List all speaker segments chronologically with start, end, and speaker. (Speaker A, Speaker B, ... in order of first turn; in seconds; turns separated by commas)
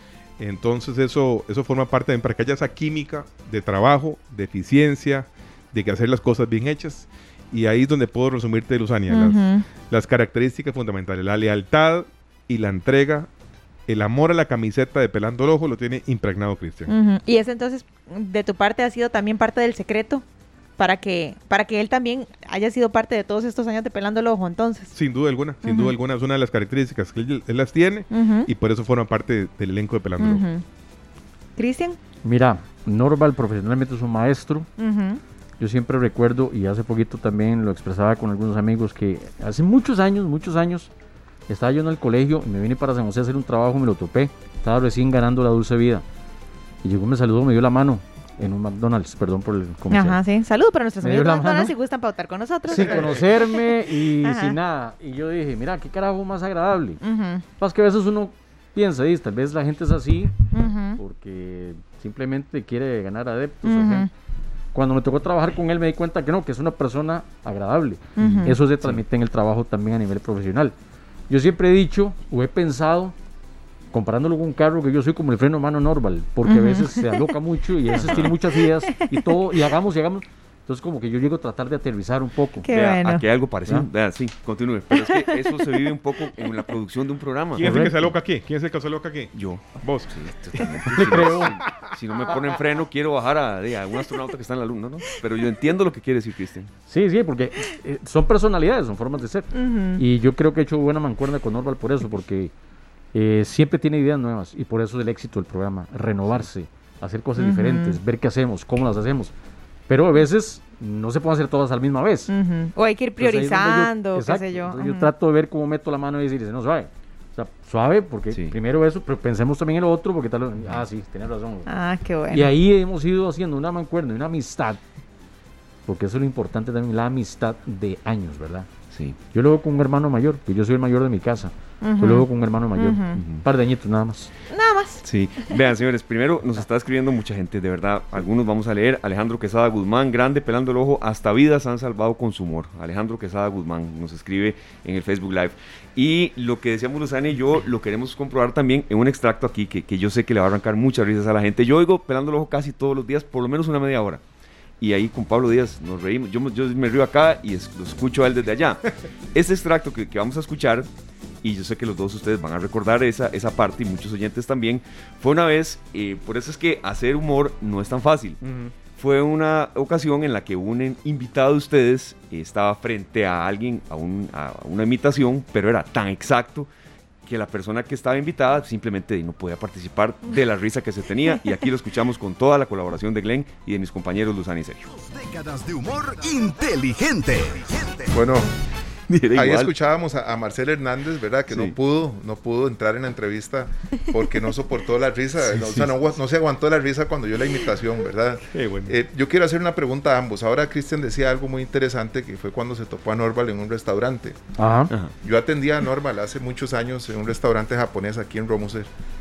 Speaker A: 0.4-13.3, Speaker B: 9.1-9.7, Speaker A: 13.9-16.9, Speaker B: 16.9-20.2, Speaker B: 20.8-24.9, Speaker A: 24.9-30.4, Speaker B: 25.6-25.9, Speaker B: 28.1-28.5, Speaker B: 30.2-30.6, Speaker B: 31.6-32.0, Speaker C: 32.2-34.7, Speaker B: 34.8-35.2, Speaker C: 35.6-40.9, Speaker C: 41.5-46.0, Speaker C: 46.8-50.2, Speaker B: 49.9-54.5, Speaker C: 51.0-51.7, Speaker C: 52.7-57.0, Speaker B: 57.0-57.4, Speaker C: 57.6-64.1, Speaker B: 60.5-61.0, Speaker B: 63.6-64.1, Speaker C: 64.7-70.7, Speaker B: 68.2-68.5, Speaker D: 68.2-69.0, Speaker C: 71.3-73.1, Speaker C: 73.9-82.7, Speaker B: 76.4-77.0, Speaker D: 77.9-78.3, Speaker B: 82.6-83.2, Speaker D: 82.7-87.9, Speaker A: 87.5-91.2, Speaker C: 87.6-88.1, Speaker D: 89.3-96.7, Speaker C: 90.9-91.6, Speaker C: 96.9-102.5, Speaker B: 99.5-100.0, Speaker C: 103.1-109.3, Speaker B: 107.4-108.0, Speaker C: 109.9-112.3, Speaker B: 112.3-115.1, Speaker C: 113.2-121.7, Speaker D: 118.3-118.6, Speaker B: 121.7-122.5, Speaker C: 122.3-124.8, Speaker C: 125.9-128.7, Speaker D: 128.9-129.2, Speaker C: 129.3-134.3, Speaker B: 131.8-133.2, Speaker D: 133.2-133.4, Speaker B: 134.5-135.0, Speaker D: 135.0-154.2, Speaker D: 154.8-158.8, Speaker D: 159.3-160.9, Speaker D: 161.4-168.4, Speaker A: 168.4-168.7, Speaker D: 168.9-176.7, Speaker D: 177.3-184.9, Speaker E: 184.9-188.1, Speaker F: 188.1-188.5, Speaker D: 189.1-189.7, Speaker F: 189.3-204.4, Speaker D: 195.5-195.9, Speaker A: 198.5-198.9, Speaker C: 204.6-204.9, Speaker F: 205.2-208.9